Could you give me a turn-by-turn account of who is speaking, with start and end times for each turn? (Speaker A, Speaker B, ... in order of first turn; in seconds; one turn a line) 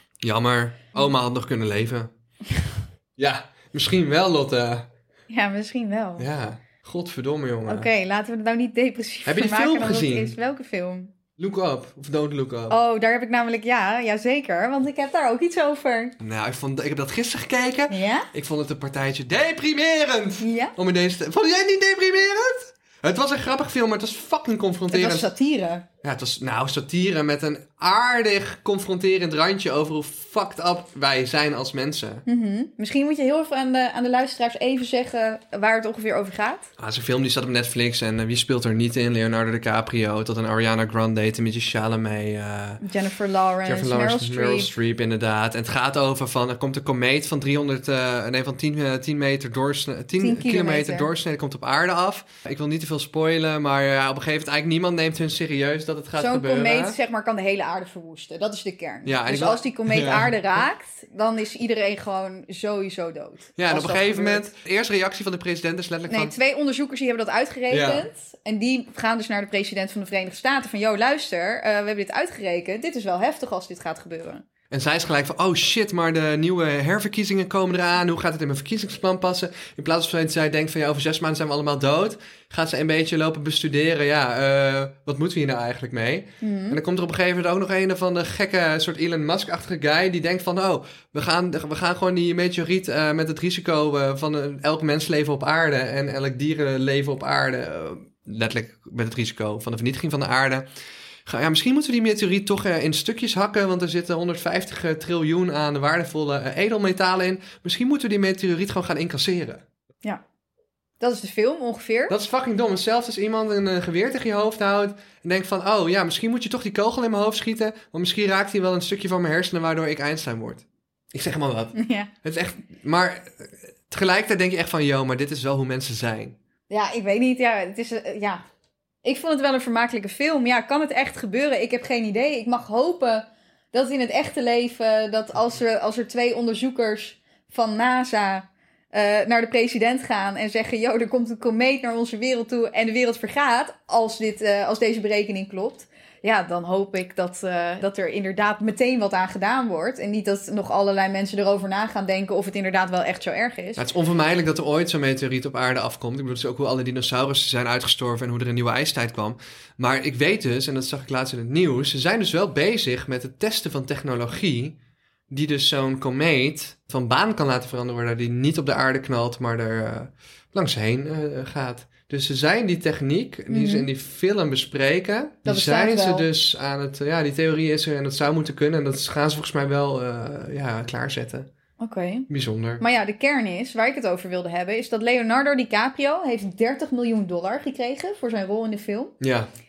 Speaker A: 0.2-2.1
Speaker A: 3.2-4.9
Speaker B: 5.3-6.3
Speaker A: 6.2-7.9
Speaker B: 7.7-11.1
Speaker A: 9.2-10.3
Speaker A: 11.4-12.8
Speaker B: 12.7-16.1
Speaker A: 16.2-25.3
Speaker B: 17.9-18.3
Speaker B: 20.4-20.7
Speaker B: 24.9-25.9
Speaker A: 26.0-32.2
Speaker B: 32.2-36.7
Speaker A: 36.8-42.8
Speaker B: 42.8-44.7
Speaker A: 43.6-57.0
Speaker B: 50.2-51.1
Speaker B: 56.2-64.5
Speaker A: 59.0-60.4
Speaker A: 63.6-66.3
Speaker B: 66.1-74.4
Speaker A: 67.7-68.1
Speaker A: 74.7-100.7
Speaker B: 86.4-86.8
Speaker A: 101.2-109.6
Speaker B: 111.0-112.1
Speaker A: 112.1-126.4
Speaker B: 121.8-122.1
Speaker B: 126.7-128.4
Speaker B: 129.0-153.8
Speaker A: 153.8-164.8
Speaker A: 165.3-181.5
Speaker B: 173.5-173.9
Speaker B: 175.4-176.3
Speaker B: 181.8-182.3
Speaker A: 182.3-182.8
Speaker B: 182.8-189.1
Speaker A: 189.2-189.5